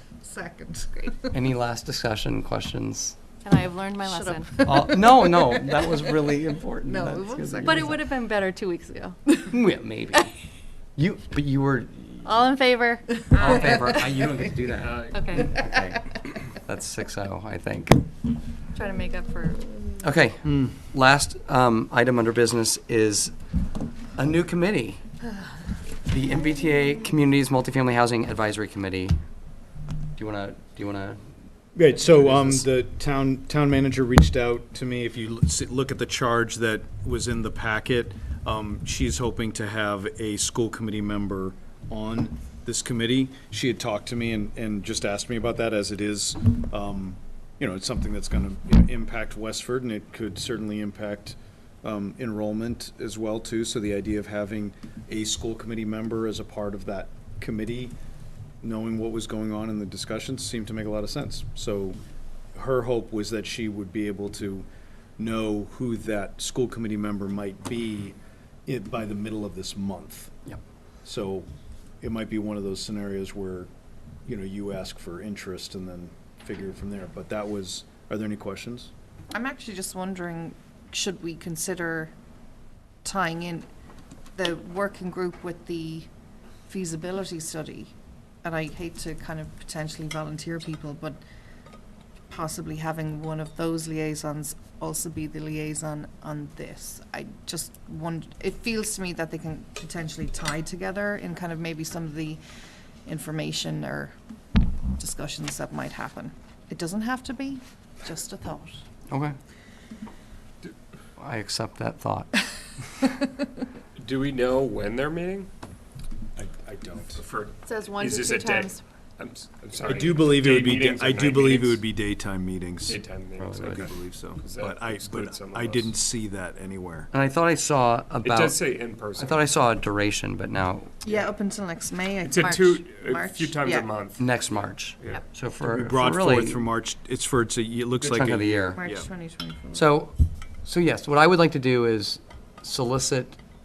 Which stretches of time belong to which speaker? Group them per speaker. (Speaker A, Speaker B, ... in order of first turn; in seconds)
Speaker A: 0.2-1.4, 4.0-5.8, 6.8-8.0, 79.3-82.1, 83.0-83.7, 84.4-86.1, 86.7-87.9, 88.4-91.2, 92.3-102.4, 103.1-104.2, 105.0-108.8, 131.1-133.9, 138.8-139.9
Speaker B: 1.3-3.2, 4.6-7.9, 9.5-10.3, 11.0-12.4, 13.3-18.0, 20.0-23.3, 24.2-25.0, 26.1-29.1, 30.2-31.2, 31.8-32.7, 109.1-109.4, 111.2-112.4, 123.4-123.9, 127.1-128.6, 129.2-131.0, 134.2-136.6, 138.1-138.8, 139.7-143.4
Speaker C: 3.4-4.5, 7.6-9.4, 12.2-13.7, 15.1-15.5, 18.7-19.7, 117.7-118.8
Speaker D: 14.7-15.4, 114.0-115.5, 117.1-121.8, 122.9-126.0, 128.2-129.6, 131.1-131.3, 132.2-134.4, 138.0-138.6
Speaker E: 20.5-20.7, 31.8-58.0, 58.6-62.0, 62.5-64.7, 65.2-68.2, 68.7-70.3, 71.0-71.5, 72.0-73.7, 74.3-78.9, 116.4-117.2, 119.8-123.0, 123.6-127.1, 135.7-139.1